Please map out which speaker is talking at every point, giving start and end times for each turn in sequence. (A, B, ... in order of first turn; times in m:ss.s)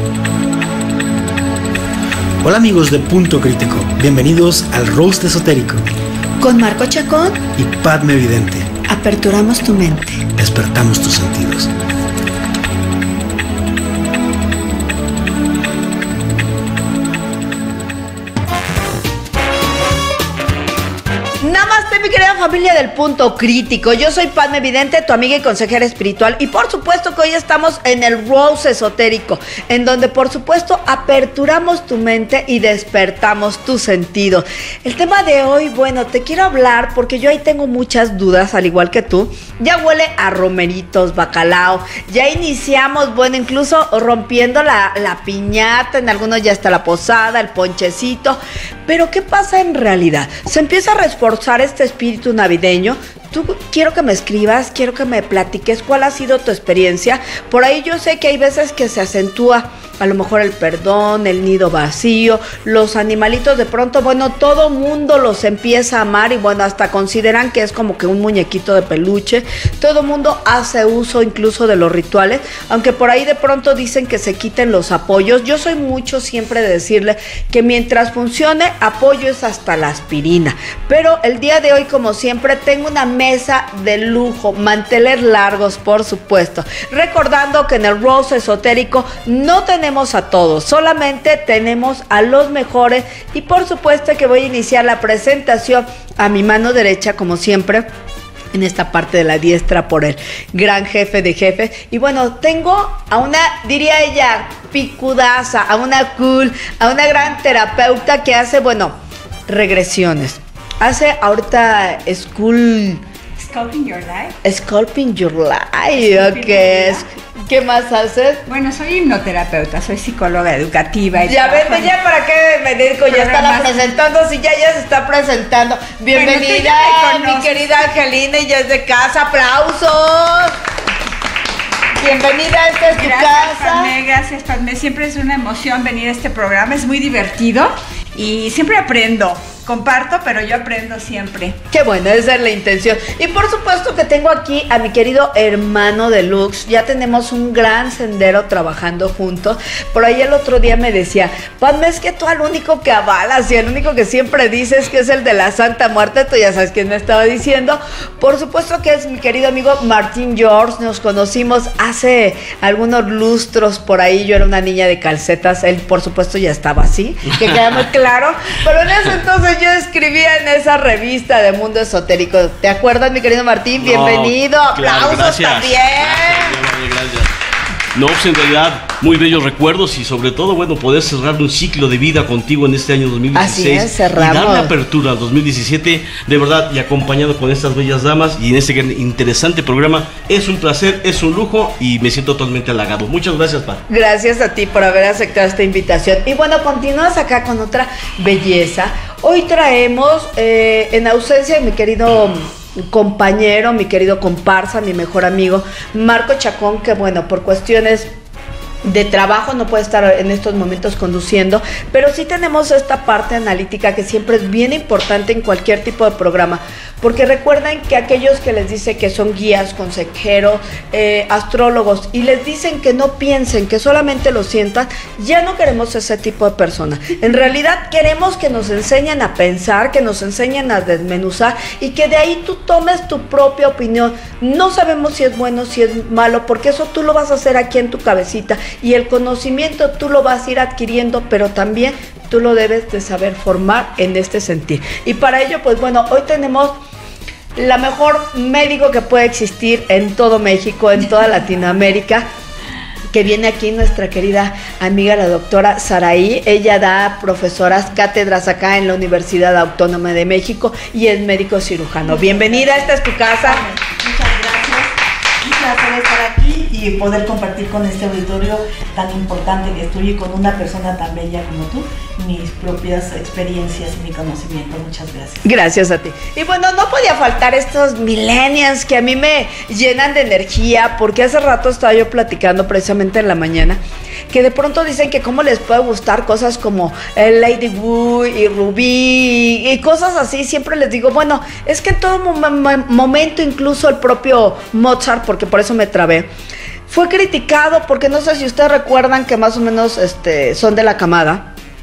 0:02.4-0:05.9 A
0:06.4-0:07.4 B
0:07.6-0:08.7 A
0:08.9-0:10.2 B
0:10.4-0:11.7 A
0:21.4-1:37.9 B
1:38.5-1:49.0 B
1:49.5-1:53.0 B
1:53.4-1:54.4 C
1:54.4-1:58.4 B
1:55.9-1:57.0 C
1:58.5-2:01.9 C
2:01.2-2:10.6 B
2:03.0-2:03.8 C
2:06.1-2:07.6 C
2:12.0-2:13.9 B
2:12.9-2:21.6 C
2:21.7-2:56.6 B
2:53.8-2:57.3 D
2:57.9-3:13.8 D
3:03.3-3:04.7 B
3:13.9-3:28.1 B
3:28.8-4:06.7 B
4:07.6-4:12.3 B
4:13.1-4:23.6 B
4:22.0-4:35.4 E
4:35.4-4:43.8 B
4:44.3-4:56.3 B
4:56.9-5:01.5 B